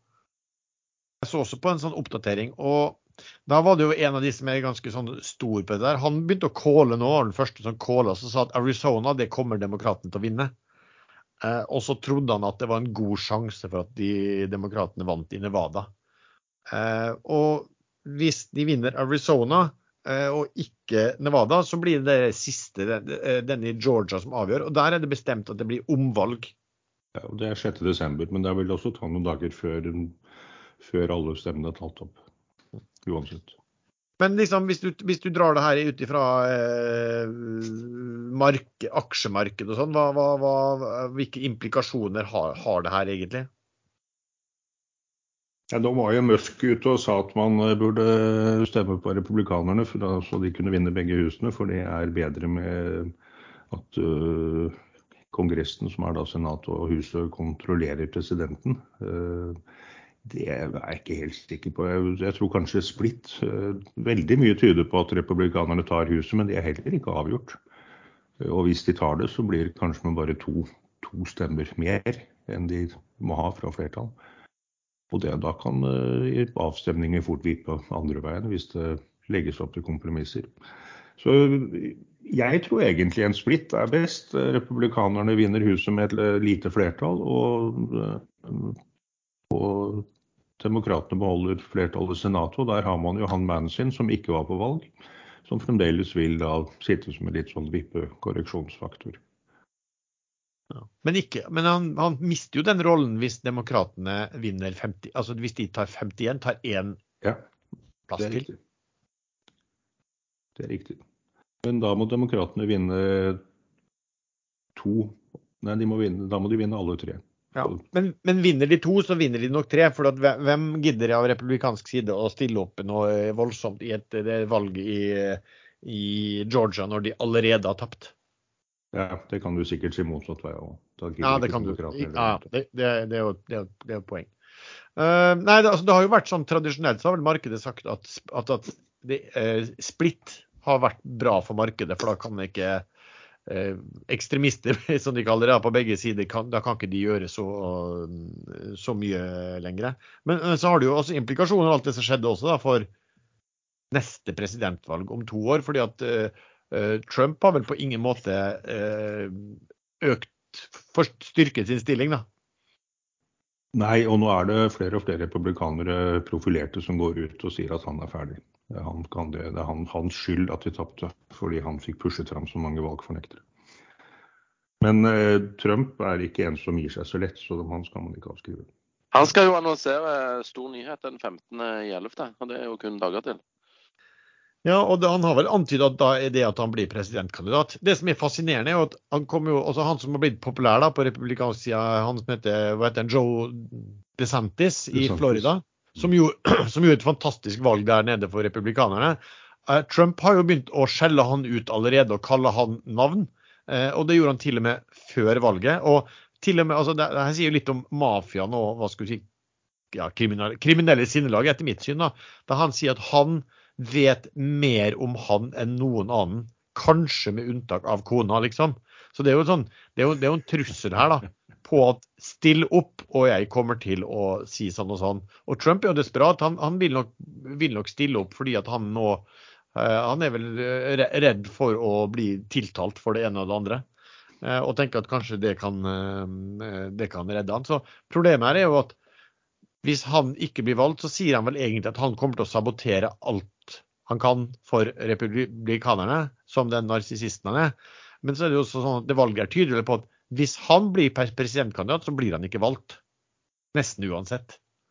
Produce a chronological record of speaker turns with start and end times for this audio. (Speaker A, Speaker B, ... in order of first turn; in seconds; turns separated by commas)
Speaker A: 1.2-10.5, Speaker A: 11.4-15.9, Speaker A: 16.7-26.5, Speaker B: 27.1-30.2, Speaker B: 30.8-32.2, Speaker B: 33.0-33.5, Speaker A: 34.2-43.5, Speaker B: 45.7-53.1, Speaker B: 53.7-54.8, Speaker B: 55.3-59.6, Speaker B: 60.2-67.6, Speaker B: 68.4-74.1, Speaker B: 75.1-80.5, Speaker B: 81.2-88.8, Speaker B: 89.5-90.0, Speaker B: 90.6-94.9, Speaker B: 95.4-99.2, Speaker A: 100.7-107.0, Speaker A: 108.1-108.5, Speaker B: 108.2-108.6, Speaker B: 110.6-111.0, Speaker B: 111.6-113.4, Speaker B: 114.7-117.8, Speaker A: 117.5-128.1, Speaker B: 128.9-132.4, Speaker A: 131.2-134.3, Speaker A: 134.9-142.8, Speaker A: 143.5-152.9, Speaker A: 153.9-162.2, Speaker B: 163.7-173.4, Speaker B: 174.8-178.7, Speaker C: 179.1-183.4, Speaker A: 184.6-209.2, Speaker B: 194.9-195.5, Speaker A: 209.9-233.8, Speaker A: 234.4-238.9, Speaker A: 239.8-253.0, Speaker A: 253.7-254.6